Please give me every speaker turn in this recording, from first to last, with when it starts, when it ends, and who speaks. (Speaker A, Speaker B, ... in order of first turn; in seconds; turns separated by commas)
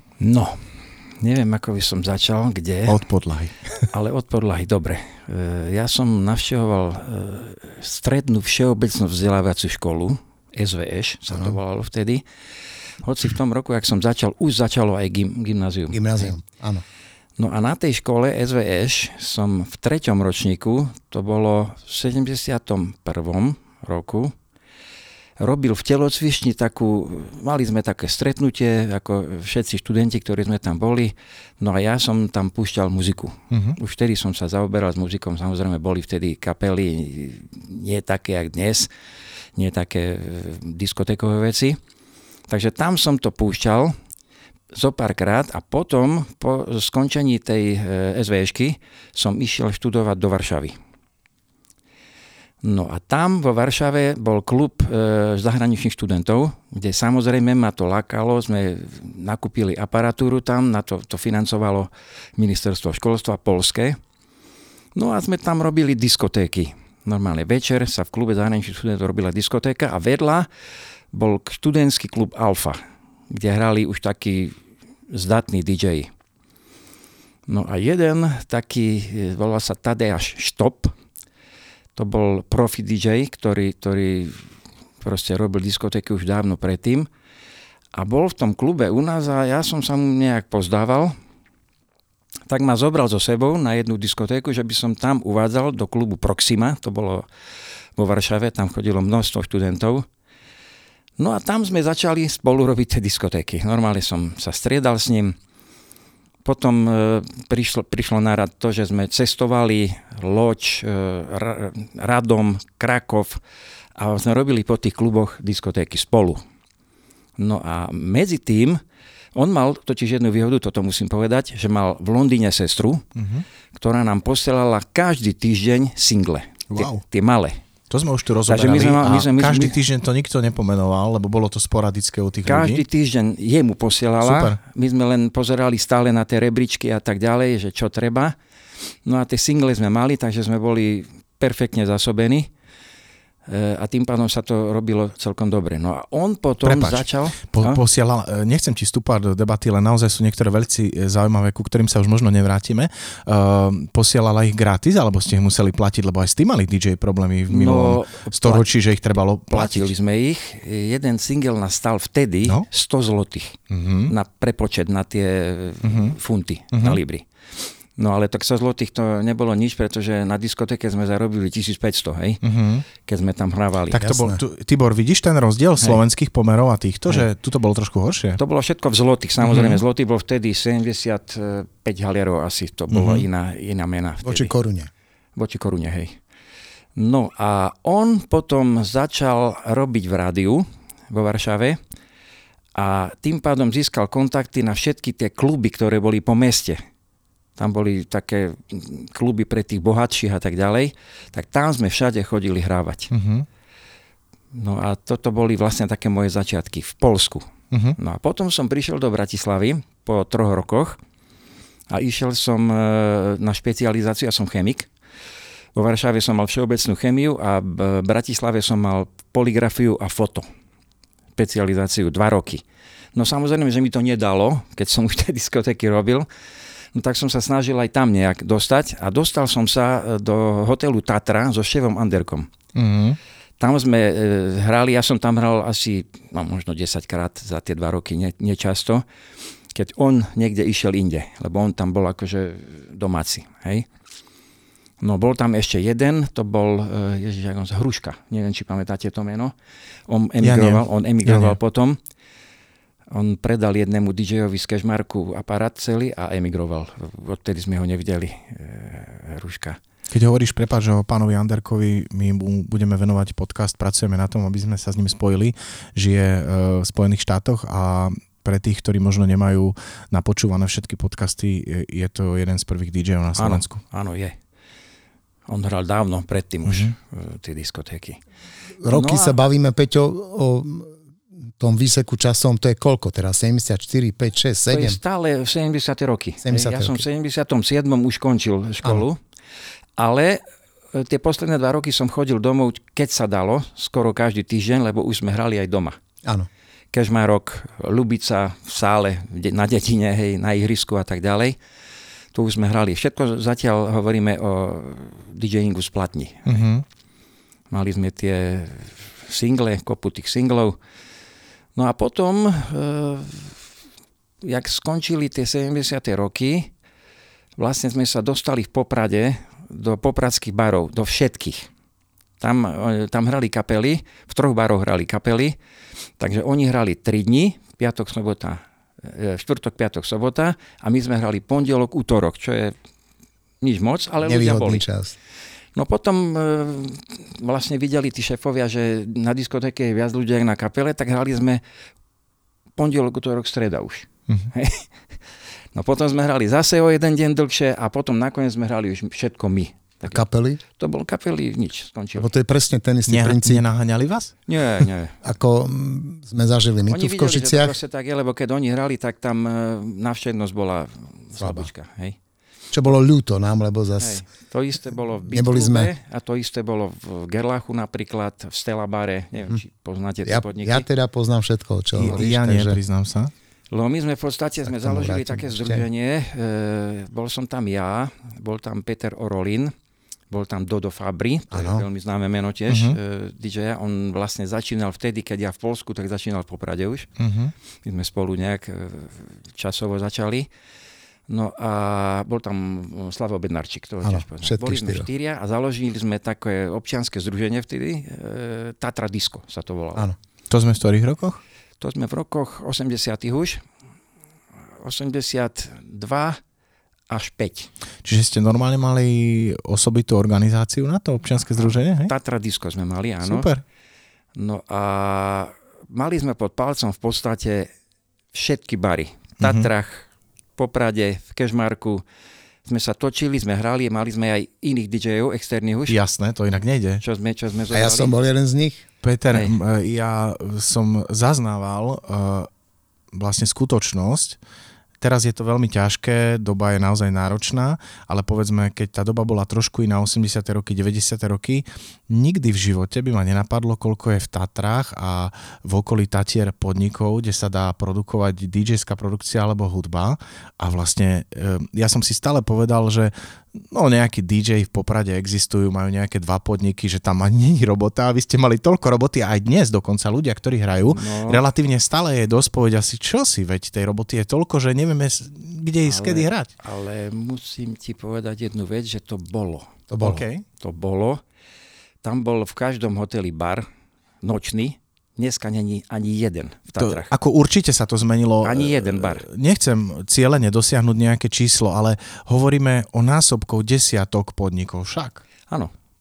Speaker A: 0.2-0.7, Speaker A: 1.2-3.0, Speaker B: 2.9-3.9, Speaker A: 3.9-12.2, Speaker C: 11.3-11.6, Speaker A: 13.0-16.3, Speaker C: 15.9-16.8, Speaker A: 17.4-24.4, Speaker A: 25.4-38.9, Speaker B: 33.5-33.8, Speaker A: 39.6-41.8, Speaker A: 42.5-44.0, Speaker A: 44.7-50.8, Speaker A: 52.6-64.0, Speaker A: 65.0-70.5, Speaker A: 71.1-72.8, Speaker A: 73.3-74.5, Speaker A: 75.1-76.1, Speaker A: 77.5-80.9, Speaker A: 82.0-84.5, Speaker A: 85.0-87.1, Speaker A: 88.0-91.2, Speaker A: 92.5-97.3, Speaker A: 98.0-100.1, Speaker A: 101.2-105.4, Speaker A: 106.4-113.4, Speaker A: 114.0-116.4, Speaker A: 117.4-118.8, Speaker A: 119.3-123.0, Speaker B: 123.2-123.5, Speaker A: 123.7-127.6, Speaker B: 126.7-127.0, Speaker B: 127.9-132.8, Speaker A: 128.5-129.8, Speaker A: 132.5-138.3, Speaker B: 134.2-134.6, Speaker A: 139.1-142.5, Speaker A: 143.5-147.8, Speaker B: 146.6-159.9, Speaker A: 157.5-158.7, Speaker A: 159.5-167.3, Speaker B: 163.7-164.1, Speaker B: 165.8-166.2, Speaker B: 166.7-167.0, Speaker A: 167.9-172.4, Speaker B: 172.4-172.9, Speaker A: 173.0-174.0, Speaker B: 173.9-178.4, Speaker C: 174.0-174.4, Speaker A: 178.4-184.5, Speaker B: 179.4-179.8, Speaker B: 182.9-183.3, Speaker C: 184.2-184.9, Speaker A: 185.4-186.2, Speaker A: 187.0-191.8, Speaker A: 192.8-196.8, Speaker A: 197.6-203.1, Speaker B: 203.1-203.5, Speaker A: 204.5-211.0, Speaker B: 207.7-208.0, Speaker A: 211.9-214.9, Speaker A: 215.8-220.5, Speaker A: 221.4-222.6, Speaker A: 223.2-226.3, Speaker A: 226.9-232.5, Speaker B: 232.8-233.2, Speaker A: 233.6-239.0, Speaker A: 239.7-243.9, Speaker A: 245.0-249.5, Speaker A: 250.1-252.0, Speaker B: 250.4-251.6, Speaker A: 253.1-259.8, Speaker B: 260.1-273.8, Speaker A: 273.4-274.4, Speaker A: 275.5-278.2, Speaker B: 276.7-276.9, Speaker C: 278.8-281.0, Speaker A: 278.9-279.4, Speaker C: 281.6-285.0, Speaker A: 284.7-289.2, Speaker C: 286.4-287.1, Speaker A: 290.0-290.4, Speaker A: 290.9-296.0, Speaker A: 296.9-301.6, Speaker A: 302.3-306.7, Speaker B: 306.5-306.8, Speaker A: 307.7-310.8, Speaker A: 311.8-313.6, Speaker A: 314.4-316.7, Speaker A: 317.6-321.7, Speaker A: 322.4-325.6, Speaker A: 326.2-332.8, Speaker A: 333.6-334.9, Speaker C: 334.2-335.1, Speaker A: 335.8-341.6, Speaker A: 342.8-344.9, Speaker A: 345.7-350.2, Speaker C: 350.1-350.6, Speaker A: 350.8-352.3, Speaker C: 352.2-353.6, Speaker B: 353.1-354.8, Speaker A: 354.5-355.2, Speaker C: 355.2-357.8, Speaker A: 356.9-362.2, Speaker C: 361.4-361.7, Speaker C: 362.7-364.2, Speaker A: 364.0-370.9, Speaker C: 365.3-365.9, Speaker C: 370.2-372.8, Speaker B: 371.9-373.3, Speaker A: 373.7-379.7, Speaker C: 374.7-375.8, Speaker A: 380.3-387.1, Speaker C: 381.5-381.9, Speaker B: 382.7-383.0, Speaker B: 387.2-387.5, Speaker A: 387.9-390.5, Speaker A: 391.3-400.1, Speaker C: 394.0-395.1, Speaker B: 400.5-401.4, Speaker A: 401.8-403.6, Speaker A: 404.8-406.4, Speaker A: 407.1-407.7, Speaker B: 408.1-412.1, Speaker A: 411.6-413.5, Speaker B: 413.2-413.6, Speaker A: 414.4-417.7, Speaker A: 418.3-422.0, Speaker B: 419.4-419.7, Speaker A: 422.7-426.0, Speaker B: 425.9-427.0, Speaker A: 427.0-428.1, Speaker C: 427.7-428.9, Speaker B: 429.0-432.5, Speaker A: 429.3-429.6, Speaker B: 433.1-434.4, Speaker B: 435.0-466.5, Speaker A: 460.8-461.4, Speaker A: 465.9-469.7, Speaker C: 469.9-470.2, Speaker B: 470.0-470.4, Speaker A: 470.6-471.2, Speaker A: 472.0-473.7, Speaker A: 474.2-477.1, Speaker B: 476.8-485.2, Speaker A: 478.4-479.3, Speaker A: 485.5-485.7